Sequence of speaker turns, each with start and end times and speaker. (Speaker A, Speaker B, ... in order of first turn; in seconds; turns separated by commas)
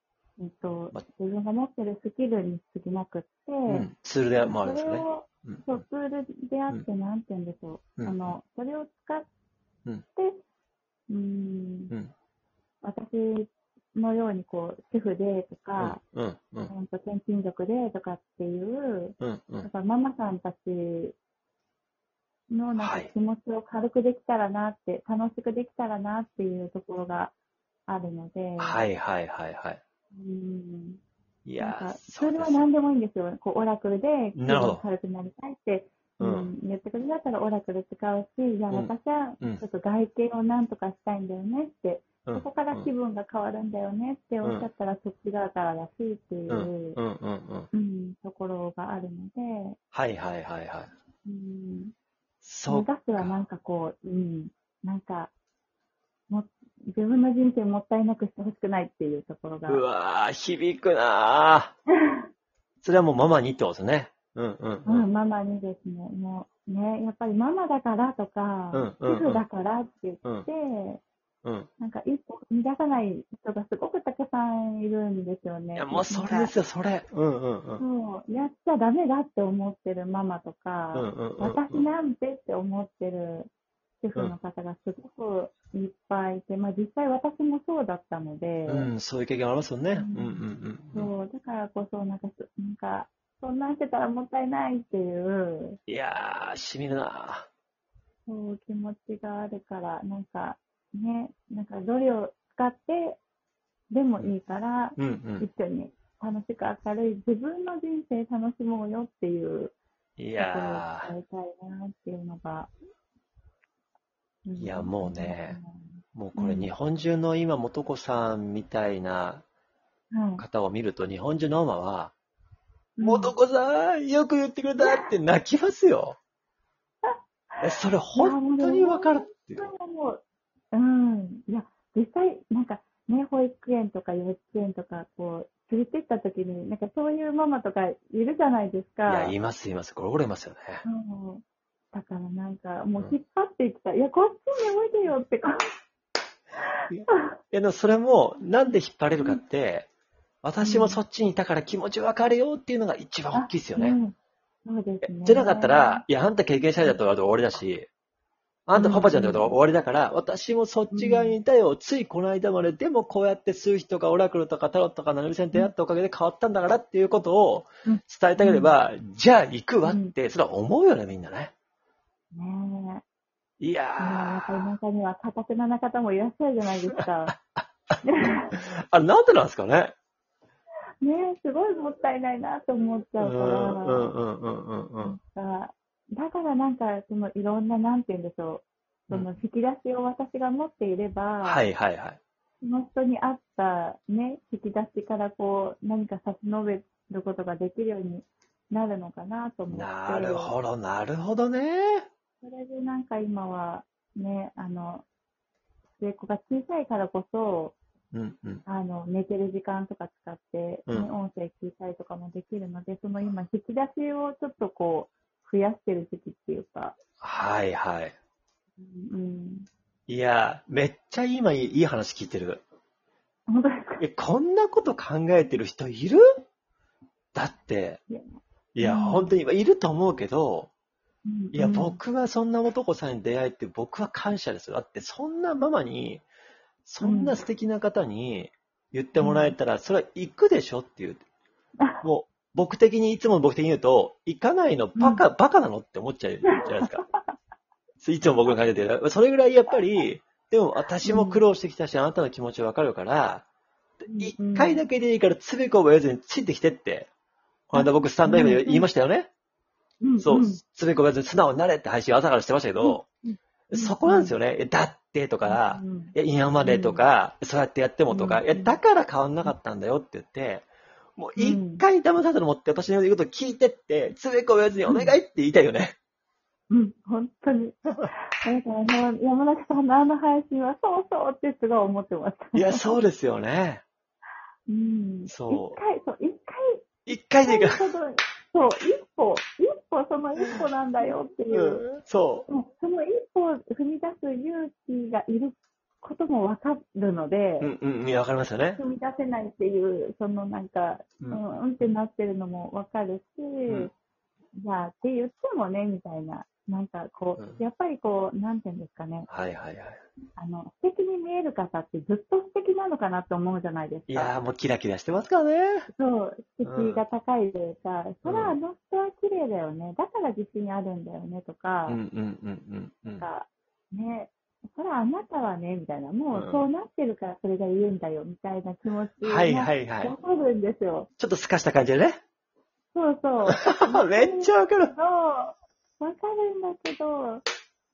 Speaker A: 0.4-3.9, Speaker B: 3.7-5.8, Speaker A: 4.4-9.3, Speaker B: 8.0-8.4, Speaker A: 11.1-11.9, Speaker A: 12.8-16.0, Speaker B: 15.8-16.7, Speaker A: 16.7-21.2, Speaker B: 19.2-19.7, Speaker A: 22.5-27.3, Speaker B: 22.8-23.1, Speaker A: 27.9-28.8, Speaker B: 28.6-29.8, Speaker A: 30.1-31.0, Speaker B: 31.4-32.7, Speaker A: 31.6-47.0, Speaker B: 34.4-34.8, Speaker B: 36.2-36.5, Speaker B: 38.7-39.6, Speaker B: 42.2-42.9, Speaker B: 46.5-47.7, Speaker A: 47.7-49.8, Speaker B: 49.9-50.9, Speaker A: 51.2-51.9, Speaker B: 52.4-53.4, Speaker A: 52.7-55.3, Speaker A: 56.3-59.8, Speaker B: 59.7-61.7, Speaker B: 62.8-65.1, Speaker A: 64.8-71.0, Speaker B: 68.7-69.4, Speaker B: 71.4-71.7, Speaker A: 71.8-76.5, Speaker B: 75.8-77.8, Speaker A: 77.8-83.5, Speaker B: 80.9-81.9, Speaker A: 84.0-88.9, Speaker B: 88.7-91.1, Speaker A: 90.0-90.4, Speaker A: 90.9-95.8, Speaker B: 95.9-97.5, Speaker A: 98.3-103.2, Speaker A: 103.9-109.8, Speaker B: 105.0-105.5, Speaker B: 110.2-111.1, Speaker A: 110.4-112.7, Speaker A: 114.5-116.7, Speaker B: 114.6-115.6, Speaker B: 116.1-119.4, Speaker A: 120.1-120.5, Speaker B: 120.4-122.1, Speaker A: 123.0-123.3, Speaker B: 123.0-126.2, Speaker A: 127.0-127.6, Speaker B: 127.6-129.7, Speaker A: 128.2-139.3, Speaker B: 139.1-140.8, Speaker A: 140.8-145.6, Speaker B: 146.9-149.9, Speaker B: 150.4-154.0, Speaker A: 150.6-151.0, Speaker A: 153.3-156.0, Speaker B: 155.0-157.9, Speaker B: 158.7-171.5, Speaker A: 158.8-159.6, Speaker A: 160.9-161.4, Speaker A: 167.8-168.7, Speaker A: 169.8-170.1, Speaker A: 172.3-173.0, Speaker B: 173.6-174.8, Speaker A: 174.0-177.3, Speaker B: 176.9-178.0, Speaker A: 178.0-178.5, Speaker B: 178.5-179.9, Speaker A: 181.0-184.1, Speaker B: 183.2-185.2, Speaker A: 185.0-191.6, Speaker B: 191.4-192.2, Speaker A: 192.6-200.5, Speaker B: 199.7-202.1, Speaker A: 202.4-205.1, Speaker A: 206.0-207.8, Speaker B: 208.1-208.6, Speaker A: 208.7-217.0, Speaker B: 217.2-218.2, Speaker A: 218.8-219.7, Speaker B: 220.1-222.6, Speaker A: 223.5-224.0, Speaker B: 224.0-226.2, Speaker B: 227.3-228.0, Speaker B: 228.8-230.7, Speaker A: 228.8-229.3, Speaker A: 231.3-232.0, Speaker B: 231.5-236.2, Speaker B: 236.8-241.2, Speaker A: 237.0-237.4, Speaker A: 239.2-239.6, Speaker B: 242.0-247.0, Speaker A: 245.0-245.2, Speaker A: 246.5-247.2, Speaker B: 248.0-253.4, Speaker A: 251.0-251.4, Speaker B: 254.1-257.1, Speaker A: 254.1-254.8, Speaker B: 257.7-259.3, Speaker A: 257.7-258.9, Speaker A: 260.0-260.6, Speaker B: 260.2-263.1, Speaker A: 262.8-264.3, Speaker B: 263.7-275.9, Speaker A: 265.5-267.0, Speaker A: 268.1-268.8, Speaker A: 271.4-271.9, Speaker A: 274.9-275.2, Speaker A: 276.7-283.0, Speaker B: 282.5-283.8, Speaker A: 284.7-291.9, Speaker B: 285.3-285.8, Speaker B: 287.1-287.8, Speaker B: 291.5-292.5, Speaker A: 292.5-297.7, Speaker B: 297.6-298.8, Speaker A: 298.8-303.9, Speaker A: 304.6-309.3, Speaker B: 309.3-310.0, Speaker A: 310.4-314.3, Speaker B: 314.1-315.9, Speaker A: 315.9-322.0, Speaker B: 316.6-317.0, Speaker B: 318.2-318.6, Speaker B: 321.9-323.3, Speaker A: 323.2-331.1, Speaker B: 326.3-326.6, Speaker B: 329.2-330.1, Speaker B: 331.2-332.2, Speaker A: 332.9-337.4, Speaker B: 333.5-334.9